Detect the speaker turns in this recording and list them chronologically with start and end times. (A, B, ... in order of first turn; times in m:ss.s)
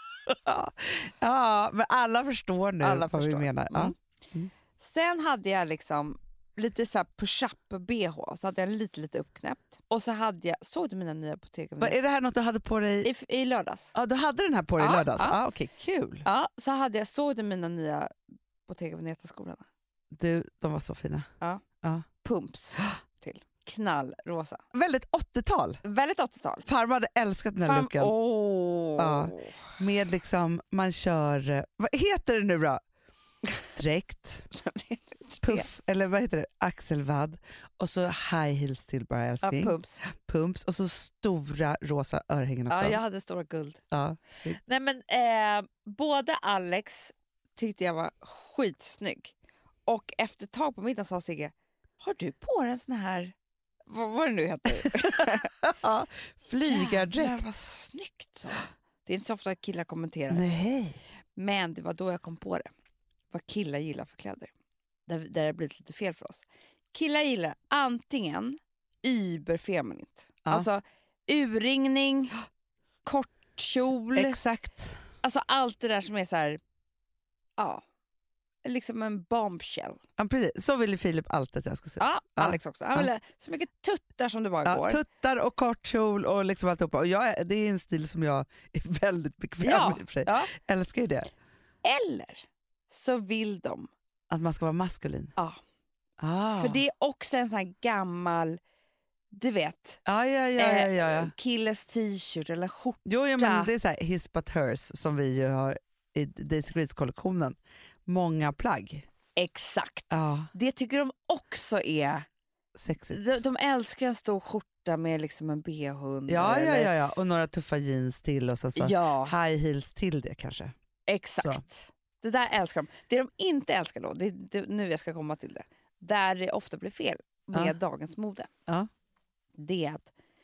0:00.3-0:04.5 A
0:02.8-0:03.9 B
0:04.8-0:12.0 B
0:11.8-0:13.1 A
0:13.0-0:13.9 B
0:13.9-0:16.2 A
0:14.8-0:15.4 B
0:16.2-0:18.1 B
0:18.7-0:19.6 B
0:20.1-0:21.2 A
0:22.2-0:24.6 B
0:24.7-0:25.8 A
0:25.8-0:26.7 B
0:26.6-0:28.1 A
0:27.6-0:29.6 B
0:29.0-0:32.8 A
0:33.7-0:34.5 A
0:34.5-0:35.7 B
0:35.4-0:43.0 A
0:39.4-0:40.0 B
0:42.7-0:43.8 B
0:43.9-0:44.6 A
0:44.5-0:49.3 B
0:49.9-0:53.3 B
0:53.9-0:55.5 B
0:55.3-0:57.4 A
0:56.6-1:00.5 B
1:00.3-1:01.0 A
1:01.3-1:02.7 B
1:03.3-1:04.5 B
1:05.1-1:12.4 B
1:13.0-1:14.4 B
1:14.2-1:15.0 A
1:15.2-1:16.6 B
1:18.6-1:20.0 B
1:20.2-1:23.1 A
1:22.0-1:25.0 B
1:24.6-1:31.3 A
1:29.6-1:30.5 B
1:31.8-1:33.9 B
1:34.3-1:35.3 A
1:36.2-1:36.8 A
1:36.6-1:38.6 B
1:39.3-1:40.0 B
1:40.0-1:41.3 A
1:40.6-1:43.7 B
1:43.0-1:49.0 A
1:49.4-1:52.2 B
1:50.1-1:50.5 A
1:52.8-1:53.4 A
1:53.0-1:56.9 B
1:56.3-2:00.7 A
1:58.8-1:59.4 B
2:01.1-2:08.5 B
2:09.6-2:10.1 B